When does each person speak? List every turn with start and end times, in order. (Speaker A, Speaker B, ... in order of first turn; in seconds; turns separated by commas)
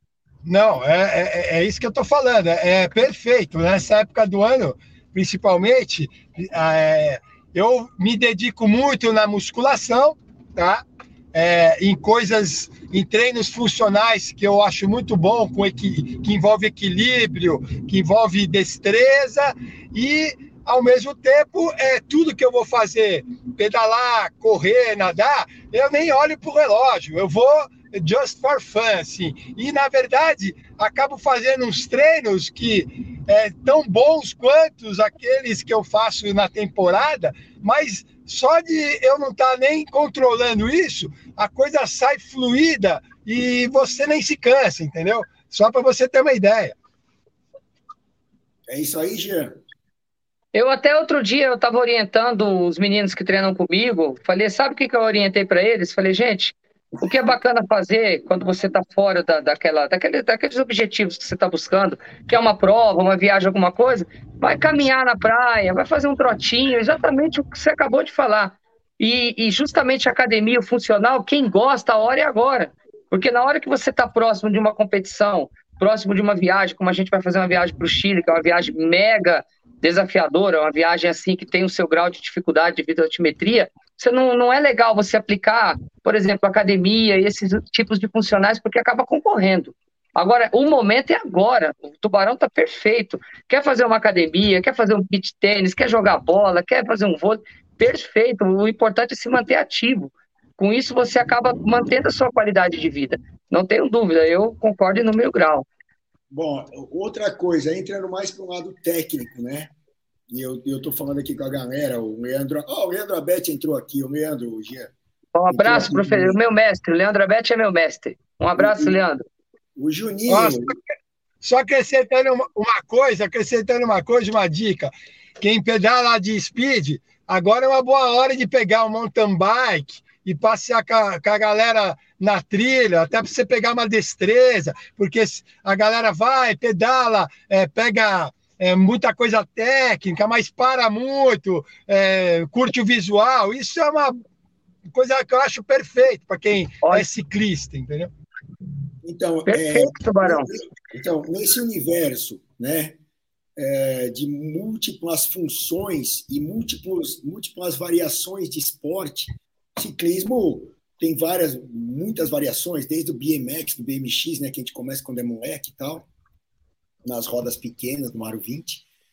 Speaker A: 0.5-46.8, Speaker B: 48.7-49.6, Speaker C: 50.5-105.7, Speaker B: 106.3-109.7, Speaker B: 110.3-114.9, Speaker C: 115.3-119.2, Speaker B: 115.5-116.4, Speaker B: 118.6-119.0, Speaker B: 119.8-120.7, Speaker A: 120.3-120.8, Speaker A: 121.4-144.2, Speaker A: 144.9-148.1, Speaker B: 149.0-153.0, Speaker C: 149.4-150.5, Speaker B: 153.6-166.1, Speaker B: 167.0-168.8